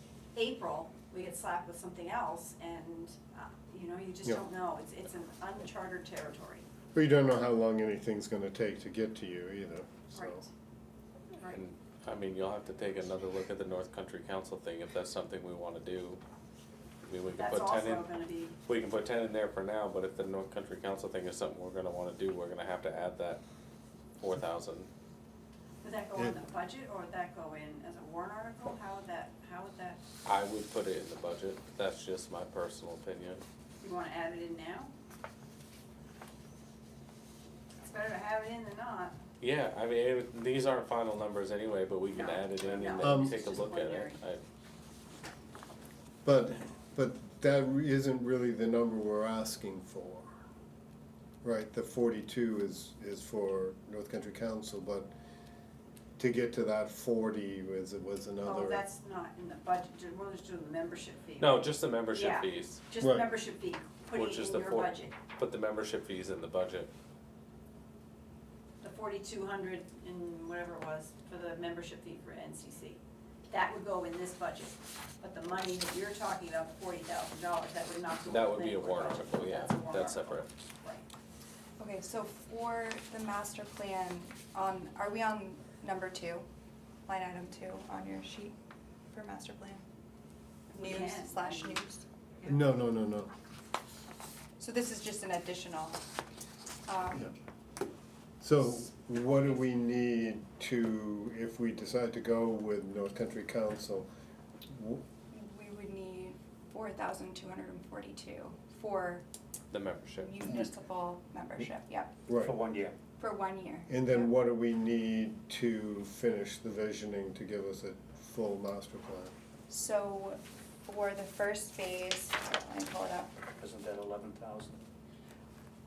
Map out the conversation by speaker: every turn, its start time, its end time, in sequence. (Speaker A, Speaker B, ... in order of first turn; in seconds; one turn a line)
Speaker A: 0.3-6.7
Speaker B: 6.9-10.4
Speaker A: 10.1-10.5
Speaker C: 11.5-16.2
Speaker C: 17.1-18.1
Speaker A: 17.4-18.6
Speaker C: 18.6-23.4
Speaker C: 24.2-24.9
Speaker A: 25.8-30.0
Speaker C: 30.2-33.4
Speaker A: 33.8-34.9
Speaker A: 37.8-39.2
Speaker C: 39.4-44.4
Speaker A: 42.1-44.2
Speaker B: 43.0-43.4
Speaker B: 46.2-50.3
Speaker B: 51.4-55.1
Speaker B: 56.2-58.8
Speaker A: 58.4-65.2
Speaker C: 61.4-62.8
Speaker B: 63.0-63.3
Speaker C: 64.1-66.9
Speaker A: 68.8-81.1
Speaker C: 78.3-80.5
Speaker D: 81.8-86.5
Speaker D: 87.1-88.5
Speaker D: 89.1-89.8
Speaker D: 90.7-92.0
Speaker A: 90.7-91.8
Speaker A: 92.4-92.7
Speaker B: 92.5-93.3
Speaker D: 94.6-96.0
Speaker D: 96.9-97.3
Speaker B: 98.4-104.1
Speaker B: 104.7-105.0
Speaker D: 105.3-109.2
Speaker C: 109.7-110.3
Speaker D: 110.2-112.3
Speaker B: 112.3-112.5
Speaker E: 112.3-113.0
Speaker D: 113.2-114.0
Speaker B: 113.9-119.3
Speaker D: 119.7-123.4
Speaker E: 123.6-124.8